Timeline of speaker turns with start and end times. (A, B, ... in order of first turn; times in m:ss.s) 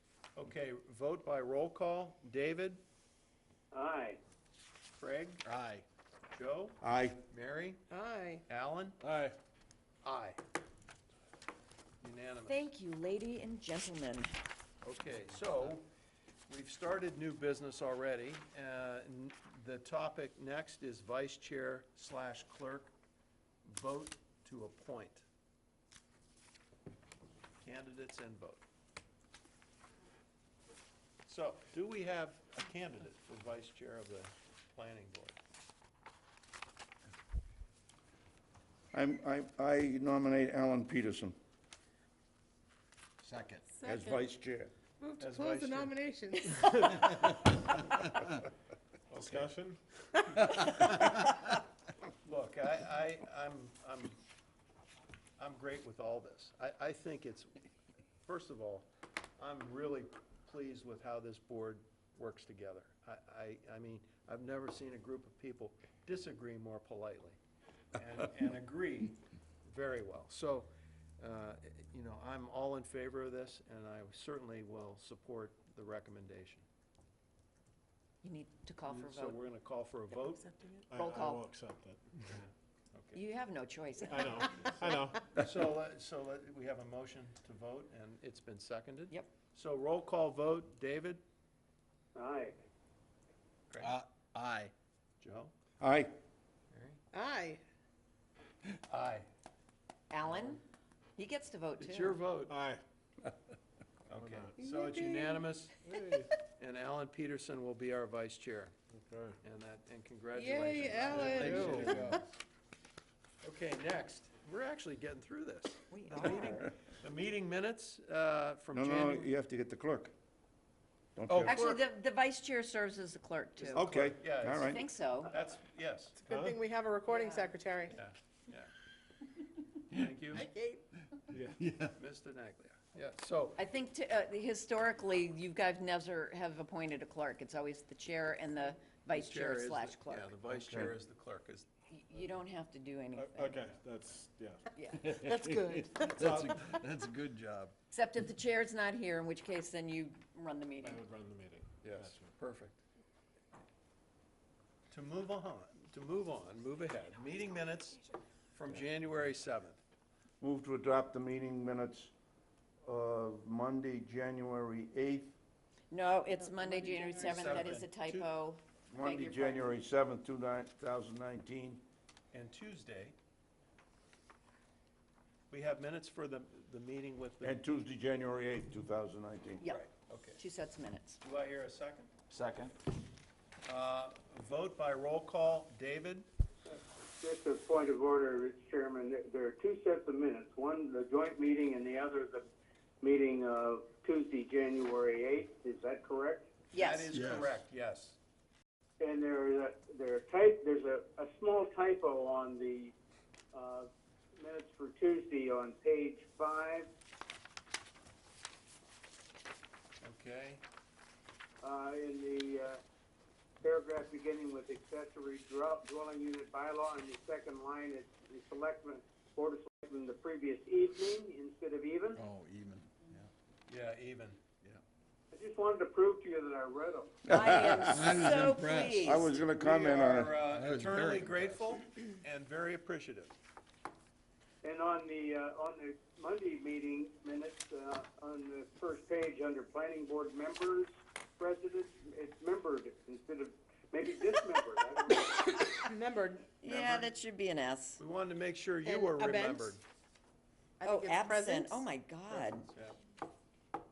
0:00.4-0:02.8 A
0:03.7-0:04.2 B
0:04.9-0:05.4 A
0:05.4-0:05.8 C
0:06.3-0:07.8 A
0:06.8-0:07.2 D
0:07.9-0:08.4 E
0:08.5-0:09.0 A
0:09.0-0:09.4 F
0:10.0-0:10.4 A
0:12.0-0:12.7 A
0:12.5-0:14.3 G
0:14.8-0:15.9 A
0:16.5-0:22.9 A
0:23.6-0:25.2 A
0:27.6-0:28.6 A
0:31.3-0:35.4 A
0:38.9-0:41.3 D
0:43.2-0:43.7 A
0:43.7-0:44.2 E
0:43.8-0:44.7 D
0:45.0-0:47.5 E
0:45.2-0:45.9 A
0:49.1-0:49.8 F
0:49.2-0:49.4 A
0:50.4-0:51.3 A
0:52.2-0:54.2 A
0:55.4-0:57.5 A
0:58.3-1:07.4 A
1:07.9-1:16.6 A
1:18.2-1:19.4 G
1:18.9-1:20.5 A
1:20.5-1:20.8 E
1:20.9-1:22.4 F
1:20.9-1:21.4 G
1:22.4-1:23.2 A
1:23.1-1:24.9 G
1:24.0-1:25.2 F
1:25.3-1:31.2 A
1:32.2-1:32.5 B
1:33.8-1:34.7 C
1:35.2-1:35.5 A
1:35.8-1:36.1 D
1:36.7-1:37.0 A
1:37.1-1:37.6 E
1:38.9-1:39.3 A
1:40.1-1:40.6 G
1:41.2-1:42.2 G
1:41.8-1:42.6 A
1:42.5-1:42.8 F
1:44.1-1:45.8 A
1:44.1-1:44.6 F
1:44.6-1:45.5 E
1:45.8-1:46.3 F
1:46.5-1:48.7 A
1:48.9-1:49.4 F
1:49.4-1:52.2 A
1:50.3-1:52.2 E
1:51.1-1:52.1 F
1:53.4-1:59.3 A
1:55.9-1:56.7 G
1:58.7-2:00.1 D
2:01.2-2:01.7 D
2:01.3-2:01.7 A
2:01.4-2:04.1 G
2:03.6-2:06.2 A
2:03.7-2:04.8 D
2:04.6-2:05.3 G
2:06.2-2:08.0 E
2:06.3-2:06.6 F
2:07.1-2:07.6 G
2:07.9-2:08.7 A
2:09.9-2:10.5 A
2:10.3-2:10.8 E
2:11.3-2:11.6 F
2:11.6-2:11.9 C
2:12.0-2:13.6 A
2:13.6-2:20.4 G
2:19.1-2:21.7 A
2:20.5-2:20.9 C
2:21.9-2:23.7 G
2:23.2-2:24.6 F
2:24.7-2:25.1 G
2:24.9-2:27.7 C
2:25.2-2:26.2 E
2:26.2-2:26.5 F
2:27.9-2:31.0 G
2:30.8-2:32.3 F
2:31.8-2:32.8 A
2:34.9-2:38.0 A
2:38.5-2:39.8 A
2:40.4-2:42.1 D
2:42.8-2:45.3 D
2:45.9-2:49.8 G
2:46.4-2:47.8 E
2:47.1-2:48.3 A
2:48.9-2:51.8 D
2:52.3-2:53.1 A
2:55.5-2:57.6 A
2:57.4-2:59.6 D
2:59.6-2:59.8 G
2:59.7-3:00.4 A
3:00.4-3:01.2 G
3:01.2-3:02.1 A
3:02.3-3:02.7 C
3:03.7-3:06.3 A
3:06.7-3:12.4 B
3:13.0-3:16.5 B
3:16.7-3:17.2 G
3:16.7-3:18.2 A
3:17.1-3:17.5 C
3:19.0-3:22.9 B
3:23.5-3:26.9 B
3:30.0-3:30.6 A
3:31.6-3:32.8 B
3:33.6-3:42.2 B
3:42.2-3:43.3 C
3:43.7-3:44.4 A
3:45.3-3:47.2 B
3:47.3-3:48.2 D
3:47.3-3:49.3 G
3:47.9-3:49.4 C
3:49.0-3:50.4 D
3:49.5-3:53.4 A
3:50.1-3:51.7 C
3:54.6-4:05.7 B
4:05.4-4:06.5 E
4:06.6-4:08.0 G
4:06.7-4:07.1 A
4:08.0-4:09.8 A
4:08.8-4:09.8 E
4:10.8-4:11.8 E
4:10.8-4:12.6 G
4:12.3-4:13.0 A